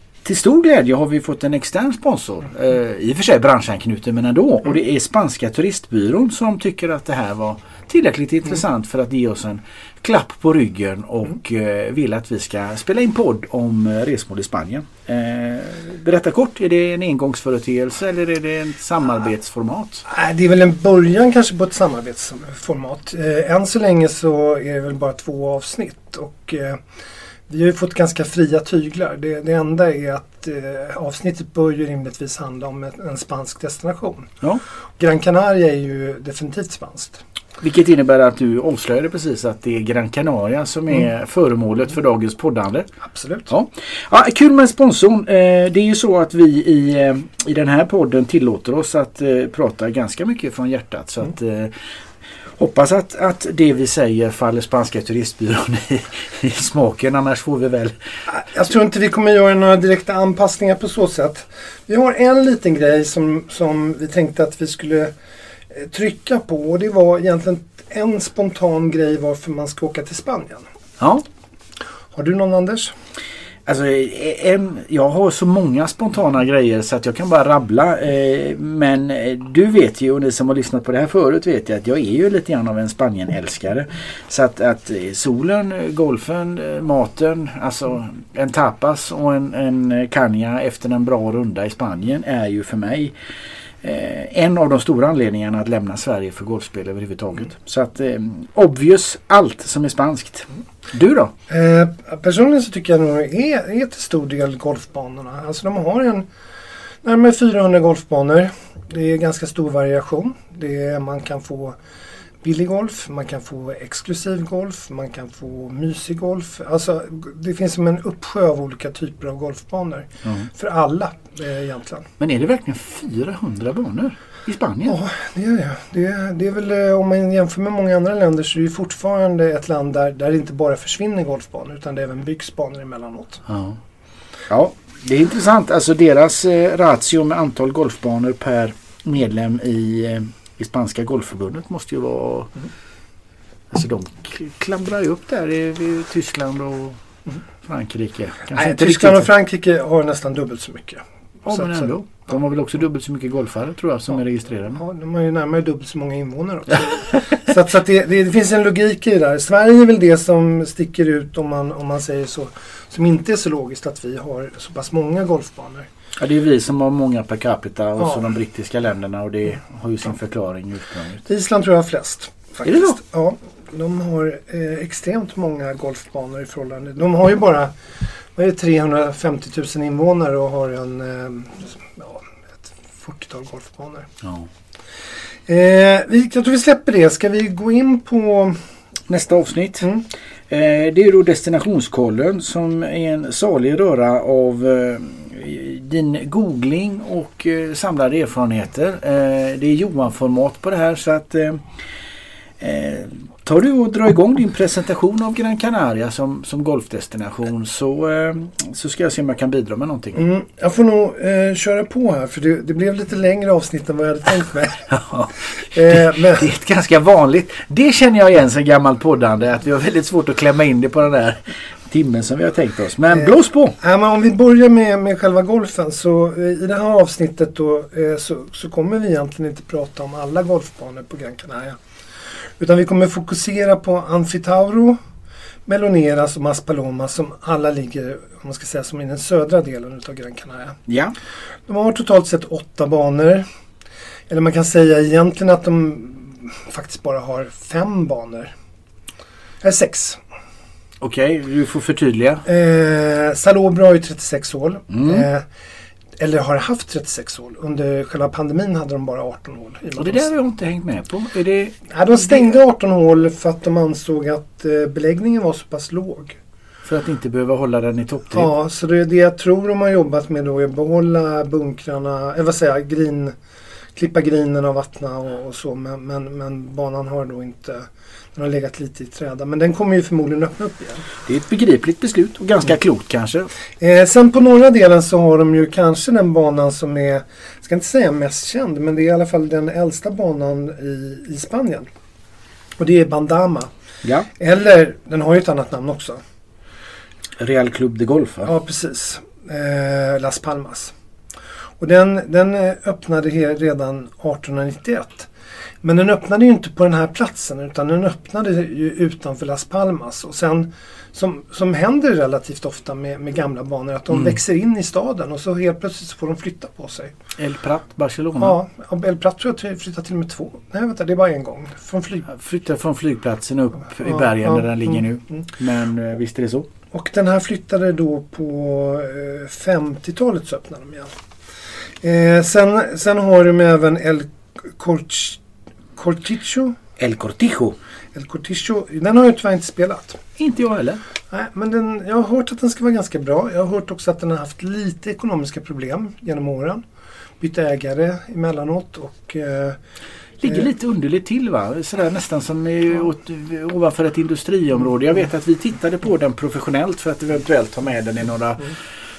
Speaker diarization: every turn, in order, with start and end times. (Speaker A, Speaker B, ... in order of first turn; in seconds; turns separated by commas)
Speaker A: 0.2-20.1, Speaker B: 20.1-26.8, Speaker B: 27.5-34.3, Speaker B: 35.0-37.2, Speaker A: 37.6-42.9, Speaker B: 43.0-43.5, Speaker A: 43.5-51.7, Speaker A: 52.6-58.0, Speaker B: 58.3-65.1, Speaker B: 65.7-70.7, Speaker A: 71.0-71.2, Speaker B: 72.1-72.9, Speaker A: 73.7-93.1, Speaker A: 93.8-101.3, Speaker B: 101.5-106.3, Speaker B: 107.0-111.8, Speaker B: 112.4-122.1, Speaker A: 122.2-125.0, Speaker B: 124.8-133.4, Speaker A: 133.5-133.8, Speaker A: 134.5-142.5, Speaker A: 143.7-147.0, Speaker A: 147.6-149.3, Speaker B: 148.5-151.9, Speaker A: 151.4-154.8, Speaker B: 154.7-165.9, Speaker A: 166.2-171.2, Speaker B: 171.2-177.7, Speaker A: 172.6-173.0, Speaker B: 178.3-184.1, Speaker B: 185.5-188.6, Speaker A: 189.1-189.9, Speaker A: 190.5-201.7, Speaker A: 202.6-210.2, Speaker B: 210.1-214.9, Speaker A: 214.9-223.8, Speaker B: 215.6-216.5, Speaker B: 223.1-231.8, Speaker B: 232.6-235.0, Speaker B: 235.7-240.8, Speaker A: 240.9-241.1, Speaker B: 241.7-243.4, Speaker B: 244.3-248.5, Speaker B: 249.6-250.2, Speaker A: 251.0-252.4, Speaker B: 252.4-255.4, Speaker A: 254.9-255.2, Speaker B: 256.2-260.3, Speaker A: 260.0-262.5, Speaker B: 261.9-266.4, Speaker A: 266.8-268.5, Speaker B: 268.3-273.3, Speaker B: 273.9-281.1, Speaker A: 281.2-283.5, Speaker B: 283.8-291.9, Speaker B: 292.8-293.7, Speaker B: 294.4-296.2, Speaker A: 297.4-298.5, Speaker B: 298.4-300.9, Speaker B: 301.8-305.3, Speaker B: 305.8-317.1, Speaker A: 317.4-318.6, Speaker B: 318.4-322.3, Speaker A: 322.3-326.7, Speaker B: 324.0-324.7, Speaker B: 326.9-331.1, Speaker B: 332.0-335.4, Speaker B: 335.9-336.8, Speaker A: 337.0-337.8, Speaker B: 338.1-340.2, Speaker A: 340.4-341.0, Speaker B: 341.3-346.8, Speaker B: 347.4-349.8, Speaker A: 350.4-358.8